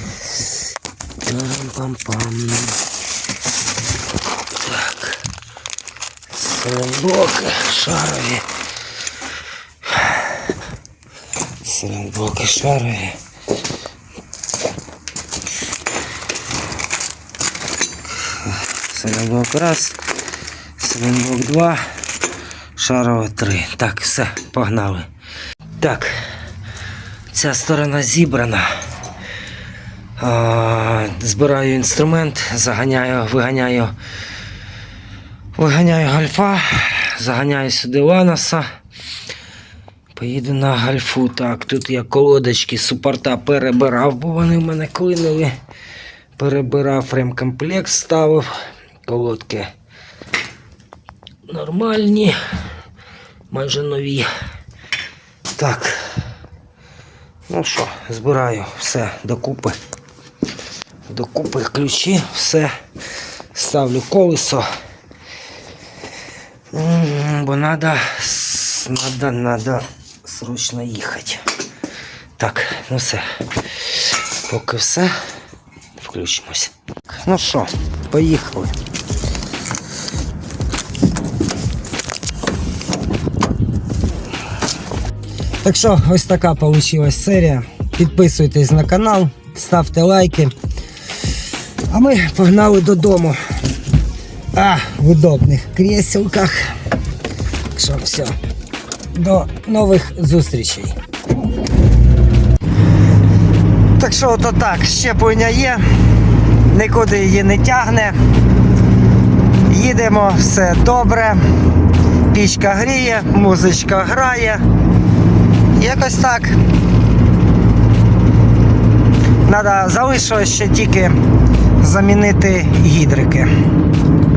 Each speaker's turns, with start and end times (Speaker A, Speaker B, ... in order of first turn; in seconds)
Speaker A: 1.2-2.8, 4.5-5.2, 6.3-8.5, 9.9-10.4, 11.6-13.2, 18.2-20.0, 20.8-21.8, 22.8-25.1, 25.8-26.2, 27.3-28.7, 30.2-33.9, 35.5-38.6, 40.1-45.6, 46.4-48.5, 49.0-49.7, 51.5-52.4, 53.5-54.3, 55.5-56.1, 57.5-59.8, 61.1-62.7, 63.5-64.7, 66.7-71.4, 72.4-75.2, 76.0-78.8, 85.6-90.5, 91.9-93.4, 94.5-96.7, 97.7-98.4, 99.1-101.0, 104.0-105.8, 106.7-108.2, 109.7-111.4, 112.3-114.6, 115.7-116.6, 119.5-121.2, 121.8-123.5